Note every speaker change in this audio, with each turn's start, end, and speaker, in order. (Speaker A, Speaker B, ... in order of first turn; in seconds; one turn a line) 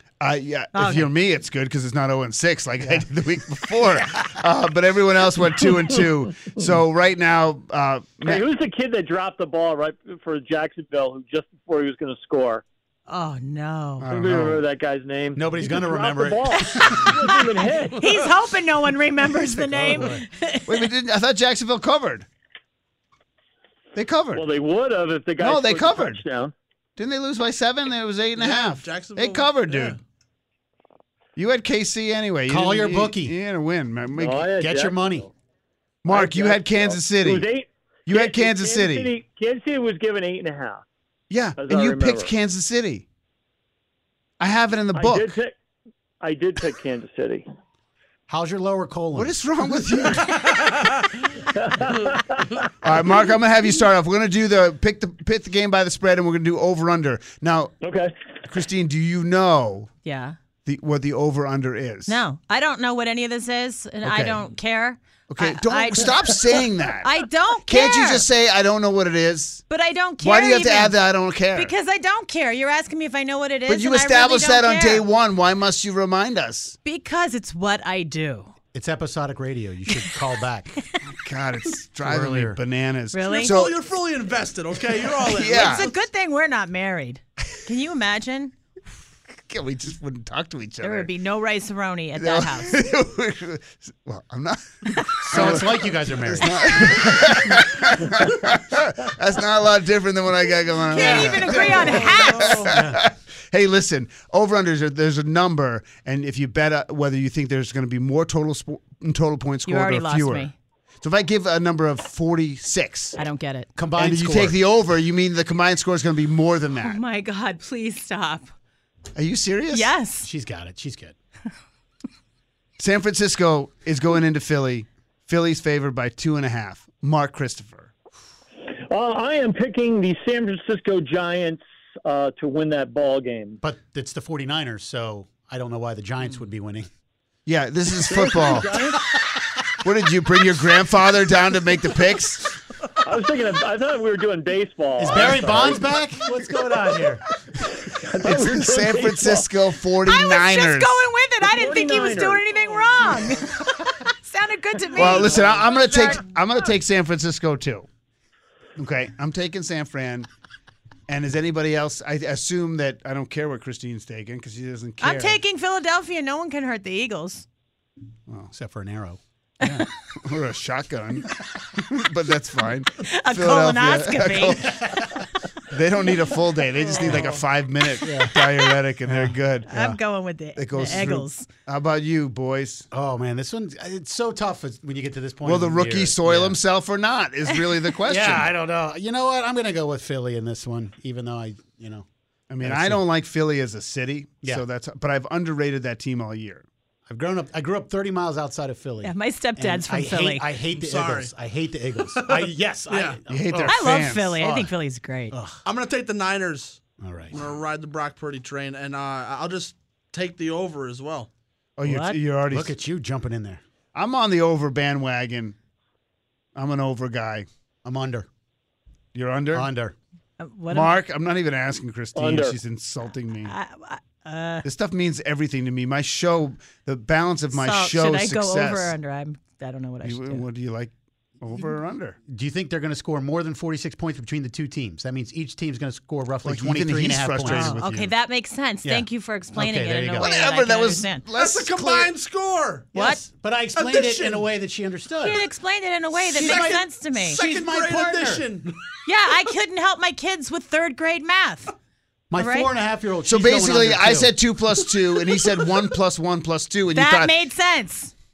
Speaker A: 0.2-8.4
Speaker B: 0.7-1.1
Speaker C: 8.2-12.6
Speaker B: 13.1-14.1
Speaker A: 14.0-14.6
Speaker C: 14.1-18.0
Speaker D: 15.3-16.8
Speaker B: 16.6-17.3
Speaker B: 17.9-20.8
Speaker D: 19.6-20.2
Speaker A: 20.7-22.2
Speaker A: 23.9-24.4
Speaker C: 24.3-26.5
Speaker A: 25.4-26.2
Speaker A: 27.0-30.0
Speaker E: 28.4-30.0
Speaker A: 31.4-34.5
Speaker D: 32.5-33.3
Speaker C: 34.1-35.1
Speaker D: 34.6-35.3
Speaker A: 36.0-37.5
Speaker C: 36.1-40.8
Speaker A: 38.1-39.1
Speaker A: 41.3-43.0
Speaker C: 41.6-42.3
Speaker A: 44.4-45.3
Speaker C: 44.9-45.5
Speaker C: 46.2-47.4
Speaker D: 48.3-49.4
Speaker A: 49.1-50.4
Speaker C: 51.6-52.2
Speaker A: 52.8-57.7
Speaker C: 57.8-58.1
Speaker A: 58.5-59.9
Speaker B: 60.0-60.3
Speaker A: 60.6-62.2
Speaker B: 62.1-66.2
Speaker A: 64.0-64.4
Speaker A: 65.3-67.1
Speaker B: 67.0-68.2
Speaker A: 67.6-69.6
Speaker B: 69.7-71.0
Speaker A: 70.2-71.7
Speaker B: 71.5-75.0
Speaker A: 73.7-76.8
Speaker B: 76.8-78.5
Speaker D: 78.7-80.8
Speaker A: 81.1-83.8
Speaker D: 82.0-82.6
Speaker B: 83.1-83.6
Speaker E: 83.2-86.0
Speaker A: 85.2-85.9
Speaker B: 85.5-88.5
Speaker A: 89.5-91.1
Speaker B: 90.8-92.8
Speaker A: 92.2-110.5
Speaker D: 95.2-97.0
Speaker B: 100.9-102.7
Speaker D: 101.0-103.0
Speaker B: 109.7-110.5
Speaker A: 111.0-113.2
Speaker B: 113.2-113.7
Speaker D: 113.8-114.6
Speaker A: 114.0-117.0
Speaker B: 116.8-118.5
Speaker A: 119.1-119.9
Speaker B: 119.7-120.3
Speaker D: 120.2-121.1
Speaker A: 122.8-127.9
Speaker C: 128.9-133.6
Speaker D: 133.6-136.9
Speaker A: 137.4-138.7
Speaker C: 138.1-139.0
Speaker A: 139.8-142.6
Speaker C: 143.0-145.8
Speaker D: 145.0-147.2
Speaker C: 147.9-149.5
Speaker A: 148.2-151.0
Speaker B: 150.0-156.2
Speaker C: 151.4-152.4
Speaker A: 154.9-157.9
Speaker C: 155.1-155.4
Speaker A: 158.8-160.3
Speaker A: 161.1-165.4
Speaker B: 165.0-167.4
Speaker D: 168.5-169.2
Speaker A: 169.6-179.8
Speaker B: 173.0-174.7
Speaker D: 174.7-175.1
Speaker D: 177.0-177.3
Speaker D: 178.0-178.3
Speaker D: 179.1-180.0
Speaker B: 179.7-181.5
Speaker A: 180.5-182.9
Speaker D: 182.9-186.6
Speaker A: 185.4-188.5
Speaker D: 188.0-192.1
Speaker A: 192.5-196.6
Speaker D: 192.6-193.0
Speaker D: 197.1-203.8
Speaker B: 199.0-200.5
Speaker E: 200.7-201.3
Speaker E: 202.1-203.2
Speaker A: 203.3-204.4
Speaker B: 203.6-205.3
Speaker D: 204.4-204.7
Speaker D: 205.3-205.6
Speaker E: 205.6-211.3
Speaker D: 207.0-207.4
Speaker A: 211.8-212.7
Speaker B: 211.8-212.2
Speaker D: 212.5-213.6
Speaker A: 213.9-215.6
Speaker A: 216.6-217.5
Speaker D: 217.8-218.3
Speaker A: 219.1-219.7
Speaker D: 219.5-219.9
Speaker B: 220.4-220.9
Speaker A: 220.7-223.5
Speaker C: 222.1-222.6
Speaker B: 223.4-224.6
Speaker A: 224.6-228.9
Speaker B: 227.5-230.4
Speaker A: 230.0-232.2
Speaker D: 232.2-237.9
Speaker A: 236.4-238.1
Speaker B: 237.4-241.3
Speaker D: 238.8-240.3
Speaker A: 240.2-242.1
Speaker E: 241.3-242.9
Speaker D: 242.9-245.4
Speaker B: 242.9-243.2
Speaker E: 243.7-244.4
Speaker B: 245.2-247.4
Speaker D: 246.3-248.5
Speaker E: 246.4-246.8
Speaker E: 247.3-248.8
Speaker B: 249.1-251.7
Speaker D: 252.3-254.3
Speaker B: 252.3-252.7
Speaker A: 253.2-257.3
Speaker B: 256.9-258.1